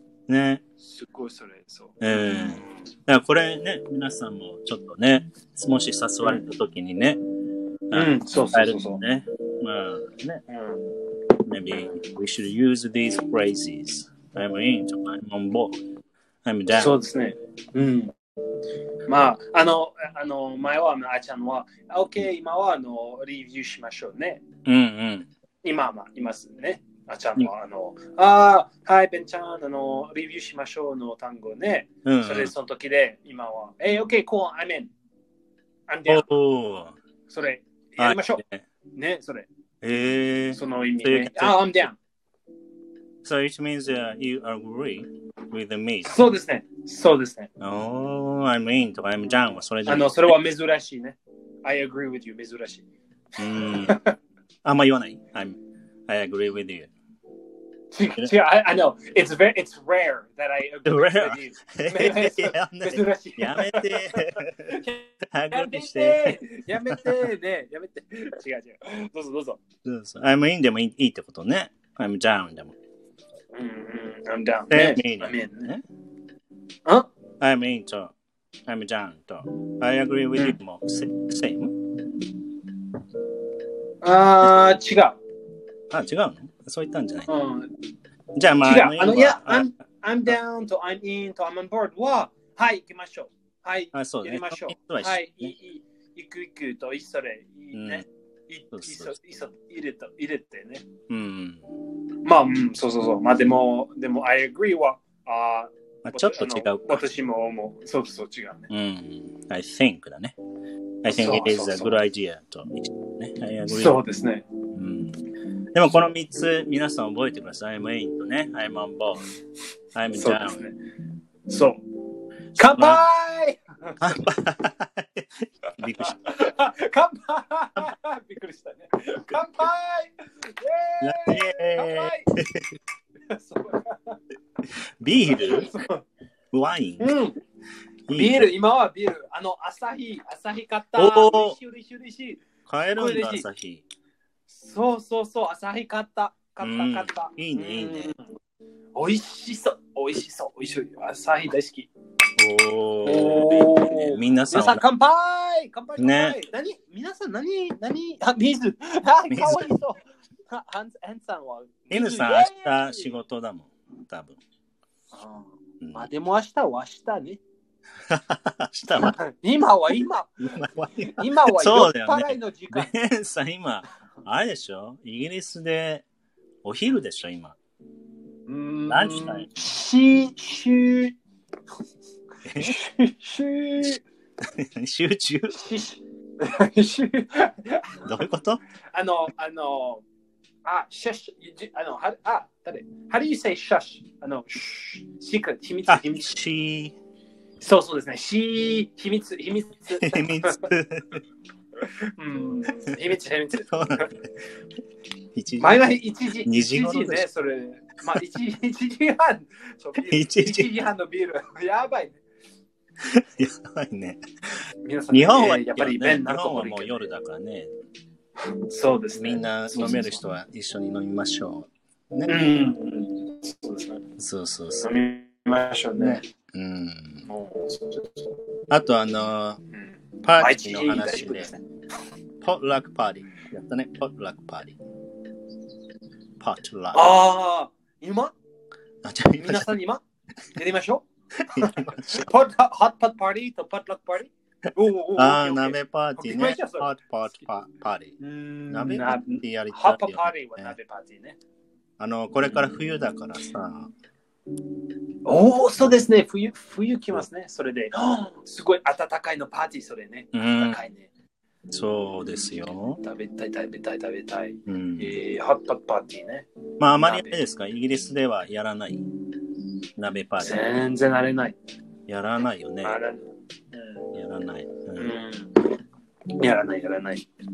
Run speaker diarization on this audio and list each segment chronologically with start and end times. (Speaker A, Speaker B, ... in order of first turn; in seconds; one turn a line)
Speaker A: 0.3-0.6
Speaker B: 0.8-2.0
Speaker A: 2.0-7.2
Speaker A: 7.9-10.4
Speaker B: 7.9-9.0
Speaker B: 10.5-10.8
Speaker A: 11.4-15.8
Speaker A: 16.4-16.9
Speaker B: 16.7-18.1
Speaker B: 19.1-24.4
Speaker A: 24.6-25.3
Speaker B: 25.6-34.9
Speaker A: 32.0-32.5
Speaker B: 35.9-36.3
Speaker A: 36.1-37.0
Speaker B: 37.3-38.4
Speaker A: 38.0-38.6
Speaker B: 38.9-39.5
Speaker A: 39.8-41.9
Speaker B: 40.5-42.0
Speaker A: 43.2-46.2
Speaker B: 46.0-47.5
Speaker A: 47.6-50.4
Speaker B: 49.9-52.8
Speaker A: 53.4-54.0
Speaker B: 53.5-54.1
Speaker A: 54.6-56.9
Speaker B: 57.9-69.6
Speaker A: 60.9-67.2
Speaker A: 69.8-72.8
Speaker B: 73.5-75.7
Speaker A: 74.7-75.8
Speaker A: 77.4-78.1
Speaker A: 78.7-81.8
Speaker B: 84.0-85.2
Speaker A: 85.9-87.3
Speaker B: 87.3-87.7
Speaker A: 88.3-89.7
Speaker B: 88.6-100.8
Speaker A: 93.9-95.5
Speaker A: 97.7-98.0
Speaker A: 98.7-99.2
Speaker A: 101.1-101.7
Speaker B: 102.2-108.7
Speaker A: 106.0-107.0
Speaker A: 108.7-110.3
Speaker A: 111.0-114.0
Speaker B: 111.1-112.0
Speaker B: 113.7-114.4
Speaker A: 114.7-115.2
Speaker A: 115.7-119.3
Speaker A: 119.9-120.6
Speaker B: 120.1-120.8
Speaker B: 121.5-121.8
Speaker B: 122.5-124.2
Speaker A: 122.6-123.0
Speaker A: 124.0-126.3
Speaker B: 126.0-132.3
Speaker A: 131.0-132.7
Speaker B: 133.3-134.2
Speaker A: 135.0-135.7
Speaker B: 135.2-136.1
Speaker A: 136.5-137.1
Speaker B: 137.0-137.4
Speaker A: 138.1-138.5
Speaker B: 138.1-142.4
Speaker A: 140.9-141.6
Speaker A: 142.7-143.8
Speaker B: 142.9-143.4
Speaker B: 144.5-148.2
Speaker A: 146.6-148.1
Speaker B: 148.9-151.9
Speaker A: 152.4-154.8
Speaker B: 153.0-163.1
Speaker A: 156.0-156.4
Speaker A: 159.3-159.7
Speaker A: 161.9-164.4
Speaker B: 165.1-167.4
Speaker A: 165.8-166.1
Speaker A: 168.1-169.2
Speaker B: 169.0-172.9
Speaker A: 170.4-176.0
Speaker A: 176.6-177.6
Speaker B: 178.5-181.2
Speaker A: 178.9-179.5
Speaker A: 182.4-182.8
Speaker B: 182.6-184.0
Speaker A: 184.4-185.6
Speaker B: 185.5-188.1
Speaker A: 188.0-188.6
Speaker B: 188.9-190.0
Speaker B: 190.6-196.3
Speaker A: 195.9-196.9
Speaker B: 197.6-200.7
Speaker A: 199.9-201.2
Speaker B: 201.8-204.1
Speaker A: 203.7-204.2
Speaker A: 205.3-205.9
Speaker B: 205.6-212.2
Speaker A: 206.4-207.2
Speaker A: 210.0-210.7
Speaker A: 213.0-214.2
Speaker B: 214.8-217.1
Speaker A: 215.1-217.7
Speaker B: 218.7-220.2
Speaker A: 219.1-222.5
Speaker B: 222.2-224.0
Speaker A: 224.2-224.9
Speaker B: 224.8-226.2
Speaker A: 226.0-227.2
Speaker B: 227.2-228.3
Speaker A: 228.7-229.6
Speaker B: 229.7-231.6
Speaker A: 230.2-231.5
Speaker A: 232.4-234.8
Speaker A: 236.4-237.1
Speaker B: 236.9-238.3
Speaker A: 239.0-239.7
Speaker B: 239.4-240.0
Speaker B: 240.5-246.9
Speaker A: 241.4-242.2
Speaker A: 245.2-248.2
Speaker B: 248.2-251.4
Speaker A: 248.7-250.7
Speaker A: 252.0-253.9
Speaker B: 255.2-261.1
Speaker A: 260.3-260.8
Speaker A: 261.7-263.0
Speaker B: 263.0-266.5
Speaker A: 264.7-265.1
Speaker A: 266.8-269.0
Speaker B: 267.0-267.4
Speaker A: 270.0-270.6
Speaker B: 270.4-271.6
Speaker A: 272.1-273.0
Speaker B: 272.8-273.2
Speaker A: 274.1-275.1
Speaker B: 275.0-275.7
Speaker B: 276.4-277.3